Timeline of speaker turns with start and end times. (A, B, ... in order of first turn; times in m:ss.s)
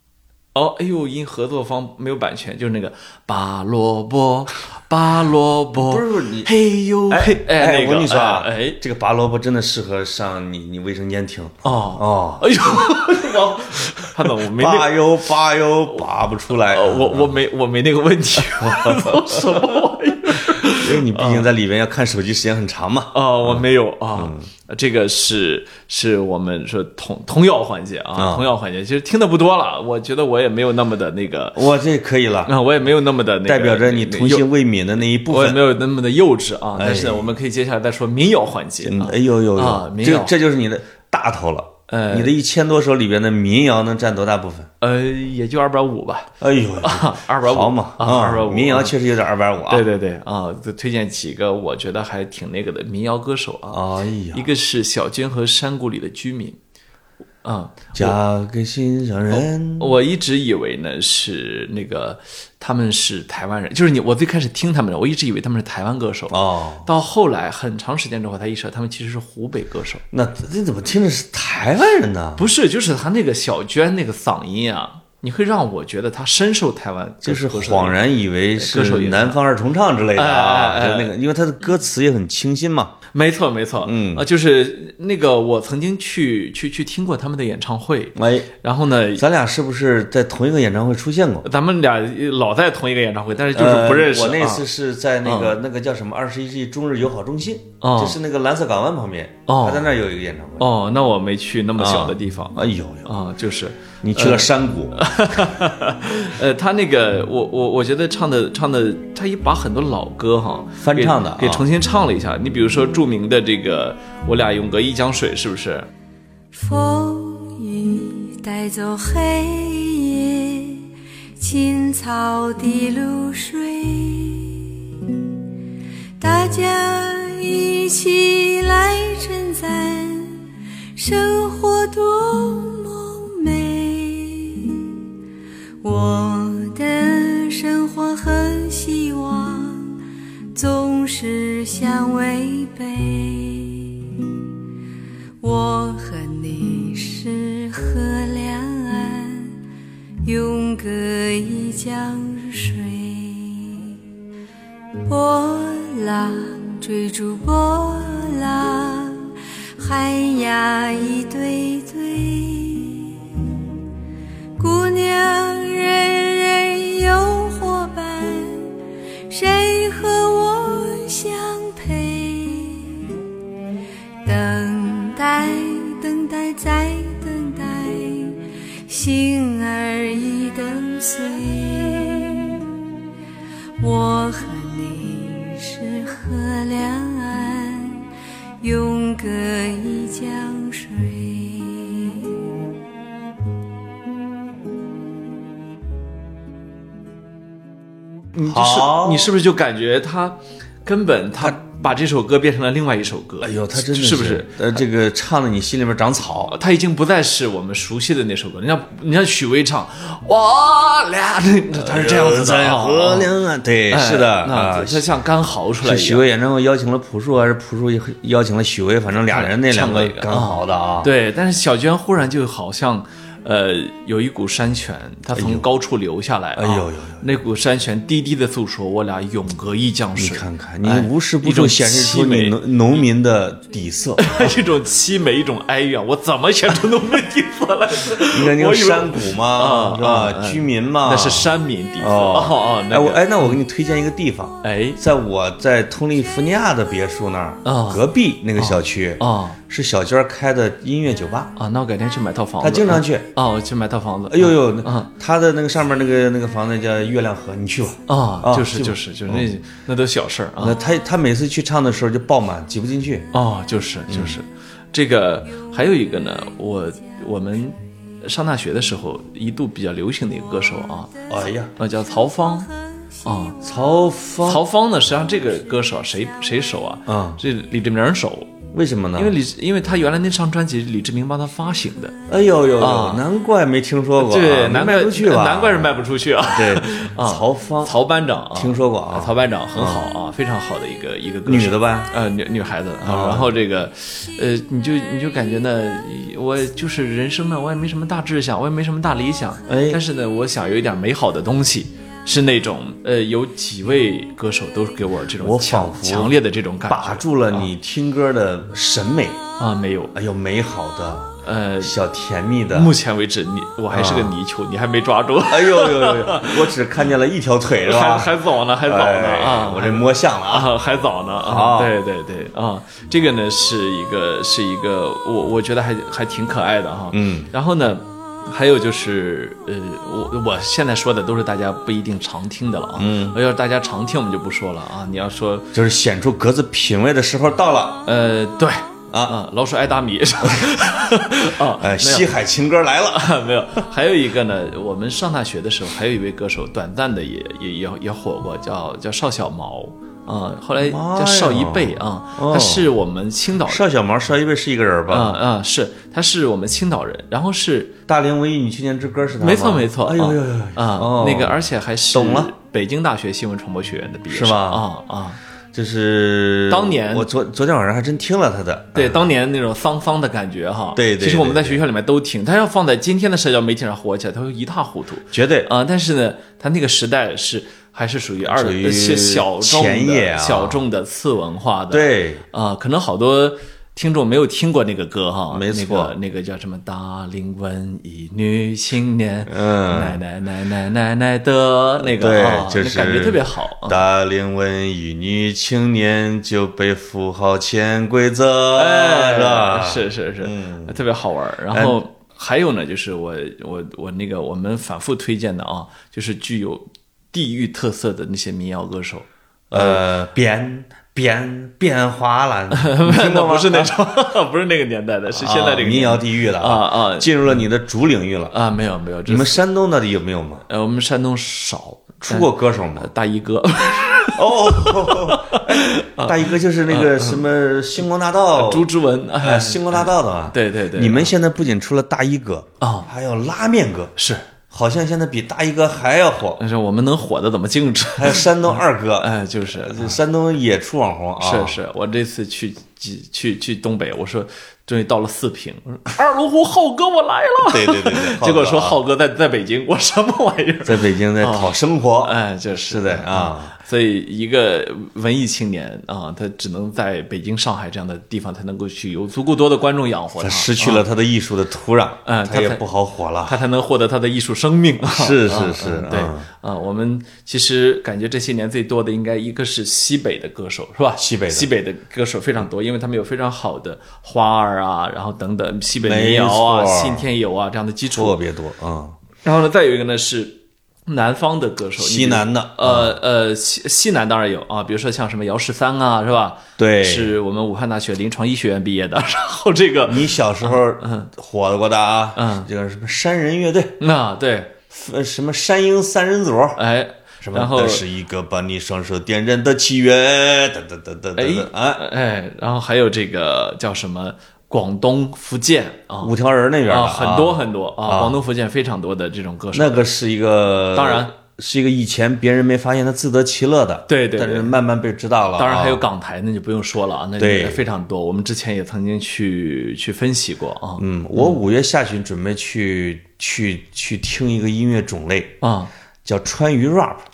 0:00.5-0:08.8 A
0:05.7-0:06.5 B
0:07.1-0:13.4 B
0:11.6-0:15.0 A
0:14.2-0:17.3 B
0:16.7-0:21.5 A
0:18.4-0:24.5 B
0:23.1-0:31.6 A
0:28.2-0:28.5 B
0:31.5-0:32.5 B
0:32.4-0:34.5 A
0:33.4-0:35.6 B
0:35.3-0:40.3 A
0:36.8-0:37.3 B
0:38.8-0:44.7 B
0:41.9-0:42.3 A
0:44.8-0:46.3 A
0:46.4-0:49.9 B
0:46.8-0:48.9 A
0:49.7-0:53.8 A
0:53.7-0:54.5 B
0:54.3-0:56.6 A
0:57.4-0:58.2 A
0:57.9-1:00.0 B
0:59.3-1:10.0 A
1:06.3-1:06.9 B
1:10.1-1:12.4 B
1:12.4-1:18.0 A
1:17.2-1:22.9 B
1:18.6-1:19.4 A
1:20.1-1:21.1 A
1:23.1-1:29.2 A
1:23.8-1:24.2 B
1:28.2-1:28.5 B
1:29.2-1:31.4 B
1:31.4-1:34.6 A
1:33.5-1:40.7 B
1:35.2-1:35.6 A
1:37.8-1:38.2 A
1:39.5-1:39.9 A
1:40.6-1:55.9 A
1:41.8-1:43.1 B
1:44.0-1:45.0 B
1:50.8-1:51.6 B
1:56.5-2:04.7 C
2:06.2-2:10.4 C
2:11.0-2:15.0 C
2:15.8-2:20.0 C
2:20.5-2:24.2 C
2:25.4-2:29.6 C
2:30.2-2:34.0 C
2:35.1-2:43.4 C
2:44.6-2:48.7 C
2:49.3-2:53.1 C
2:54.2-3:02.6 C
3:03.8-3:08.0 C
3:08.6-3:12.4 C
3:18.3-3:24.8 A
3:18.5-3:19.3 B
3:23.4-3:26.5 B
3:26.5-3:33.3 A
3:31.7-3:35.0 B
3:33.9-3:36.2 A
3:35.8-3:41.1 B
3:39.3-3:52.6 A
3:45.3-3:45.7 B
3:46.6-3:47.2 B
3:50.2-3:54.5 B
3:54.2-4:03.5 A
3:58.3-4:11.5 B
4:04.6-4:05.0 A
4:07.6-4:08.0 A
4:08.6-4:09.6 A
4:11.6-4:15.1 A
4:12.6-4:13.3 B
4:14.3-4:19.5 B
4:18.1-4:20.8 A
4:20.6-4:23.3 B
4:23.3-4:31.2 A
4:24.1-4:24.4 B
4:31.3-4:31.7 B
4:31.8-4:32.7 A
4:33.2-4:33.6 A
4:33.6-4:34.6 B
4:34.4-4:38.5 A
4:37.1-4:37.4 B
4:38.7-4:39.4 B
4:39.2-4:42.1 A
4:42.3-4:48.0 B
4:42.8-4:43.2 A
4:44.2-5:07.7 A
4:48.5-4:50.0 B
4:51.4-4:52.1 B
4:53.0-4:53.5 B
4:59.7-5:00.0 B
5:05.4-5:06.3 B
5:06.9-5:09.4 B
5:09.6-5:10.1 A
5:10.1-5:12.9 B
5:11.4-5:12.0 A
5:12.7-5:16.7 A
5:13.9-5:14.3 B
5:15.5-5:20.7 B
5:17.8-5:35.7 A
5:21.4-5:22.0 B
5:27.1-5:27.5 B
5:33.0-5:33.4 B
5:35.7-5:38.0 B
5:38.0-5:42.3 A
5:39.1-5:39.3 B
5:41.8-5:43.3 B
5:43.1-5:53.8 A
5:50.8-5:52.9 B
5:53.7-5:55.4 B
5:55.1-5:57.9 A
5:58.1-6:01.6 B
5:59.4-6:05.4 A
6:02.1-6:02.5 B
6:04.3-6:04.9 B
6:05.7-6:09.3 B
6:06.7-6:07.3 A
6:08.9-6:34.0 A
6:11.0-6:11.8 B
6:15.3-6:15.7 B
6:18.4-6:20.8 B
6:21.9-6:22.4 B
6:25.5-6:26.1 B
6:29.5-6:30.2 B
6:32.0-6:41.0 B
6:38.7-6:50.0 A
6:41.7-6:42.0 B
6:49.7-6:53.9 B
6:52.7-6:57.6 A
6:55.3-6:58.5 B
6:58.5-6:59.6 A
6:59.3-7:00.6 B
7:00.7-7:07.4 A
7:02.2-7:03.1 B
7:04.3-7:08.9 B
7:08.5-7:11.3 A
7:09.4-7:14.1 B
7:12.8-7:13.1 A
7:14.2-7:14.4 A
7:14.7-7:16.6 B
7:16.6-7:20.2 A
7:18.2-7:21.7 B
7:21.4-7:41.0 A
7:27.7-7:29.0 B
7:30.8-7:32.3 B
7:32.8-7:33.7 B
7:40.4-7:43.6 B
7:42.2-7:42.8 A
7:43.4-7:58.4 A
7:45.0-7:46.5 B
7:51.2-7:51.7 B
7:55.9-7:57.2 B
7:58.1-7:59.2 B
7:59.4-8:11.3 A
8:02.0-8:03.2 B
8:06.8-8:07.3 B
8:10.0-8:14.0 B
8:12.4-8:12.7 A
8:14.0-8:14.8 A
8:14.9-8:16.8 B
8:16.8-8:18.0 A
8:17.4-8:22.0 B
8:21.4-8:26.3 A
8:26.2-8:28.4 B
8:26.8-8:30.1 A
8:29.7-8:36.0 B
8:30.9-8:31.3 A
8:34.1-8:34.8 A
8:35.6-8:41.6 A
8:37.4-8:37.8 B
8:41.0-8:45.6 B
8:45.6-8:45.9 A
8:46.2-8:47.2 B